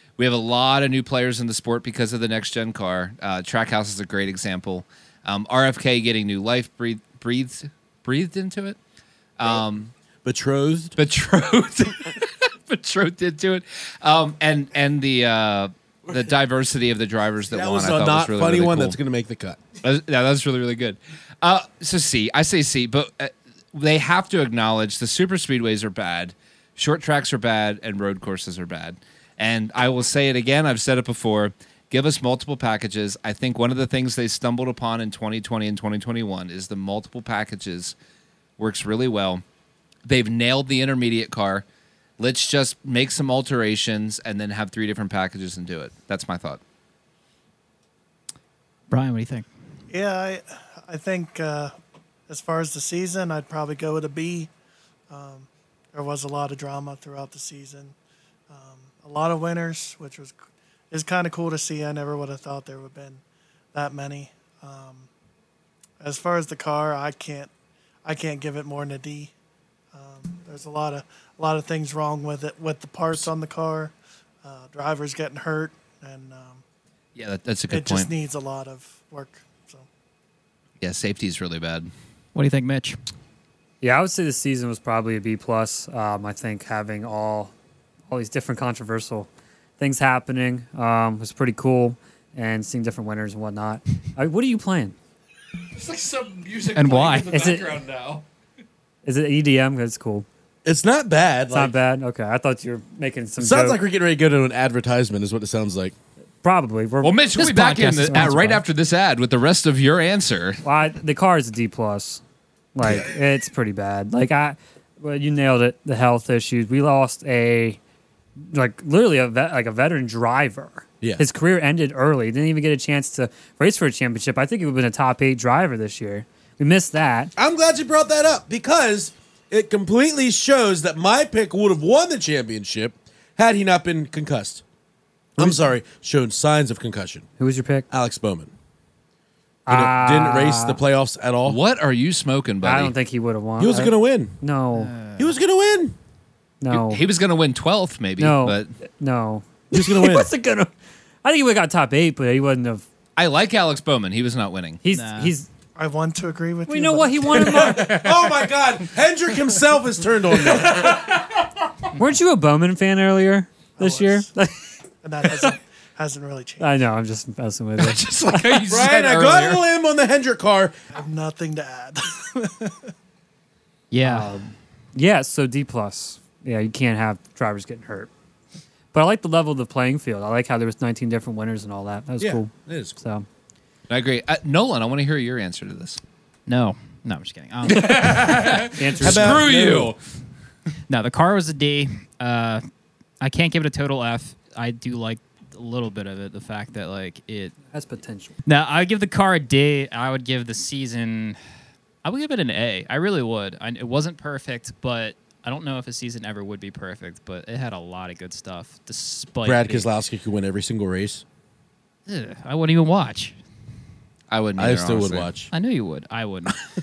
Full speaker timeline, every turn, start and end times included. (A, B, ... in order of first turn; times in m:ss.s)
0:00.2-0:08.8 A
0:09.4-0:09.9 A
0:10.2-0:11.0 B
0:11.0-0:19.0 A
0:17.5-0:19.6 B
0:19.8-0:38.0 A
0:38.6-0:39.4 A
0:40.1-0:41.6 A
0:42.2-0:46.6 A
0:48.9-0:49.5 C
0:49.9-0:51.7 D
0:52.3-0:54.5 D
0:55.1-0:58.0 D
0:58.5-1:00.4 D
1:00.9-1:03.2 D
1:03.7-1:05.1 D
1:06.0-1:07.5 D
1:08.0-1:09.3 D
1:09.9-1:16.6 D
1:17.2-1:18.1 A
1:17.7-1:19.9 D
1:20.8-1:21.9 A
1:22.4-1:23.0 C
1:23.8-1:27.5 E
1:28.1-1:29.3 E
1:29.8-1:35.0 E
1:35.8-1:38.2 A
1:36.8-1:37.5 C
1:37.3-1:37.7 E
1:39.0-1:40.3 E
1:40.6-1:41.7 B
1:41.5-1:43.8 E
1:43.4-1:46.0 B
1:46.4-1:47.2 E
1:47.0-1:50.6 A
1:47.4-1:48.6 C
1:48.1-1:48.6 E
1:50.6-1:52.2 E
1:52.8-1:57.8 E
1:52.8-1:53.1 B
1:58.4-2:07.3 E
2:07.4-2:14.6 B
2:15.4-2:15.7 E
2:15.4-2:17.3 B
2:17.4-2:17.9 E
2:17.9-2:18.5 B
2:19.7-2:20.8 E
2:19.7-2:21.6 B
2:21.4-2:22.9 A
2:22.6-2:24.9 E
2:23.6-2:24.4 B
2:24.7-2:25.3 C
2:25.2-2:26.0 B
2:26.6-2:27.0 E
2:26.7-2:28.7 A
2:28.2-2:30.7 E
2:29.7-2:30.3 B
2:31.2-2:32.8 E
2:33.2-2:34.8 A
2:34.8-2:35.5 E
2:34.9-2:35.4 C
2:35.8-2:37.7 D
2:36.7-2:38.0 E
2:37.4-2:41.1 B
2:37.6-2:38.4 A
2:40.6-2:41.1 E
2:42.0-2:44.7 E
2:43.8-2:44.3 D
2:45.0-2:46.8 D
2:45.2-2:45.5 E
2:46.6-2:48.6 E
2:47.8-2:49.6 A
2:48.7-2:50.8 B
2:50.9-2:52.8 D
2:53.9-2:54.4 C
2:54.0-2:58.1 E
2:58.9-3:03.3 E
3:02.2-3:03.0 B
3:03.9-3:06.0 A
3:06.5-3:08.7 C
3:07.7-3:10.0 A
3:08.8-3:09.5 E
3:09.0-3:09.9 B
3:10.9-3:12.6 C
3:13.2-3:17.6 C
3:17.7-3:18.4 E
3:18.4-3:21.4 C
3:22.0-3:29.9 C
3:29.4-3:31.2 B
3:32.1-3:33.4 C
3:34.3-3:35.3 A
3:34.6-3:35.5 B
3:35.5-3:36.6 C